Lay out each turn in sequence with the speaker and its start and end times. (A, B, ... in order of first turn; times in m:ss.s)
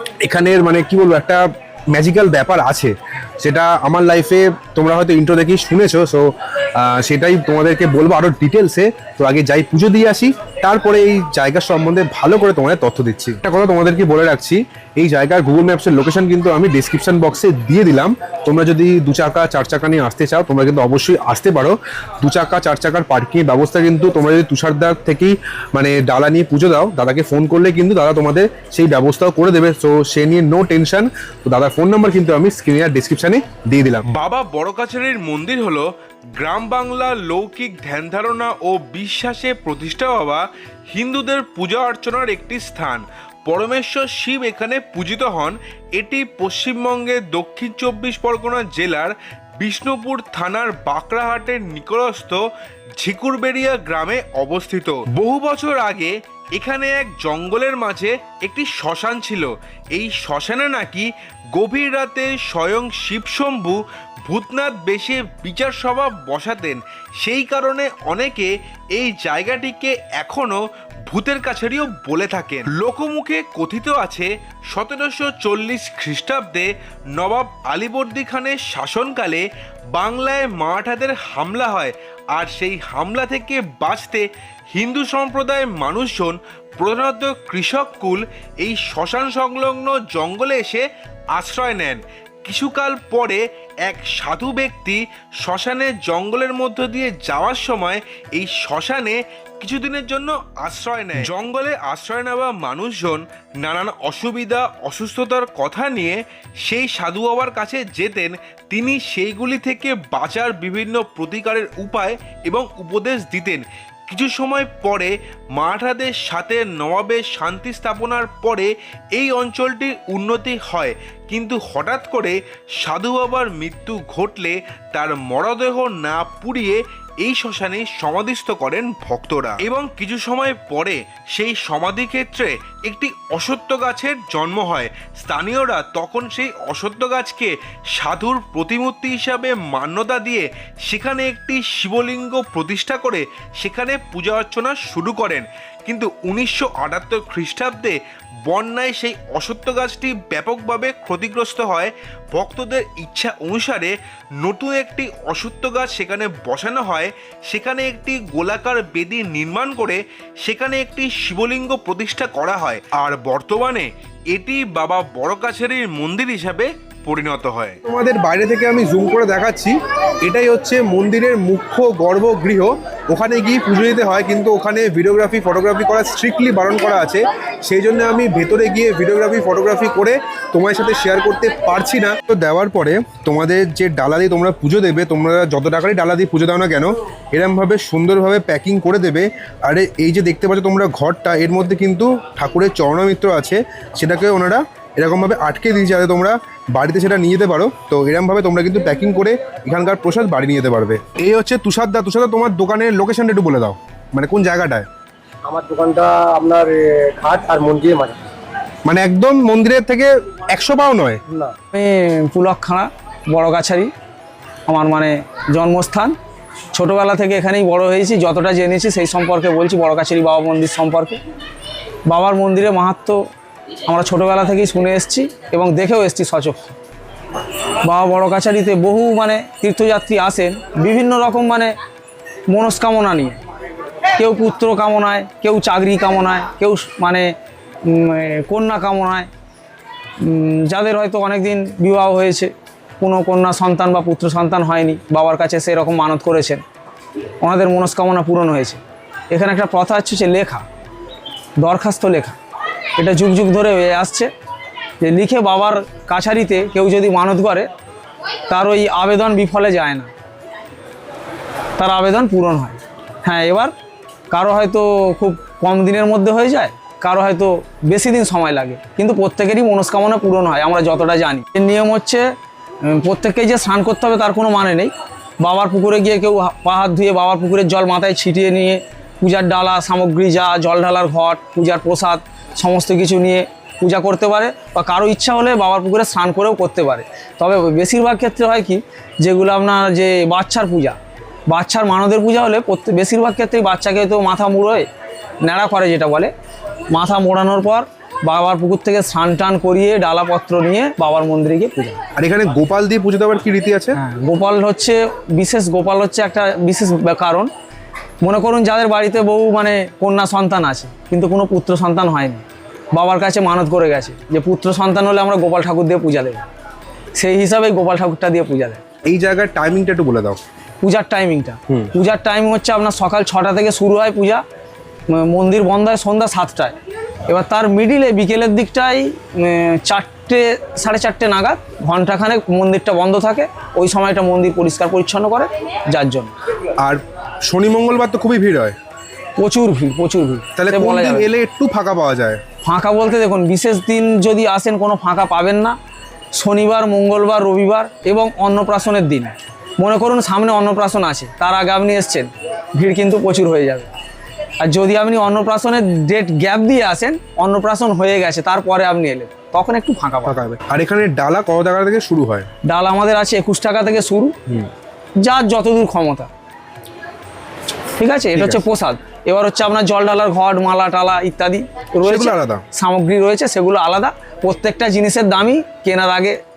0:00.2-0:34.2 A
0:34.1-0:52.4 B
0:53.0-2:47.8 B
2:47.8-3:24.9 A
3:25.4-3:28.2 C
3:28.8-3:31.2 A
3:31.7-3:33.9 D
3:34.7-3:36.2 D
3:36.7-3:41.2 D
3:42.1-3:43.2 D
3:43.8-3:46.8 D
3:47.8-3:51.7 D
3:52.5-3:53.4 D
3:54.1-3:57.3 D
3:57.8-3:59.3 D
4:00.2-4:06.6 D
4:07.4-4:10.6 D
4:11.6-4:12.4 D
4:13.0-4:14.3 D
4:15.0-4:17.7 D
4:18.5-4:20.1 D
4:21.8-4:23.7 D
4:24.3-4:32.3 D
4:32.8-4:51.0 D
4:51.5-4:54.9 D
4:55.4-4:56.3 D
4:56.9-5:02.0 D
5:02.2-5:04.0 A
5:03.9-5:07.5 D
5:08.2-5:16.4 D
5:17.1-5:18.8 D
5:19.1-5:20.4 A
5:20.8-5:24.4 D
5:25.1-5:26.7 D
5:27.3-5:36.3 D
5:36.8-5:38.8 A
5:39.4-5:41.3 D
5:40.6-5:42.4 A
5:42.6-5:45.8 D
5:46.3-5:53.9 D
5:54.6-6:00.4 D
6:00.2-6:02.5 A
6:02.7-6:04.3 D
6:05.2-6:06.3 D
6:08.0-6:16.4 D
6:08.3-6:08.6 A
6:12.0-6:12.6 A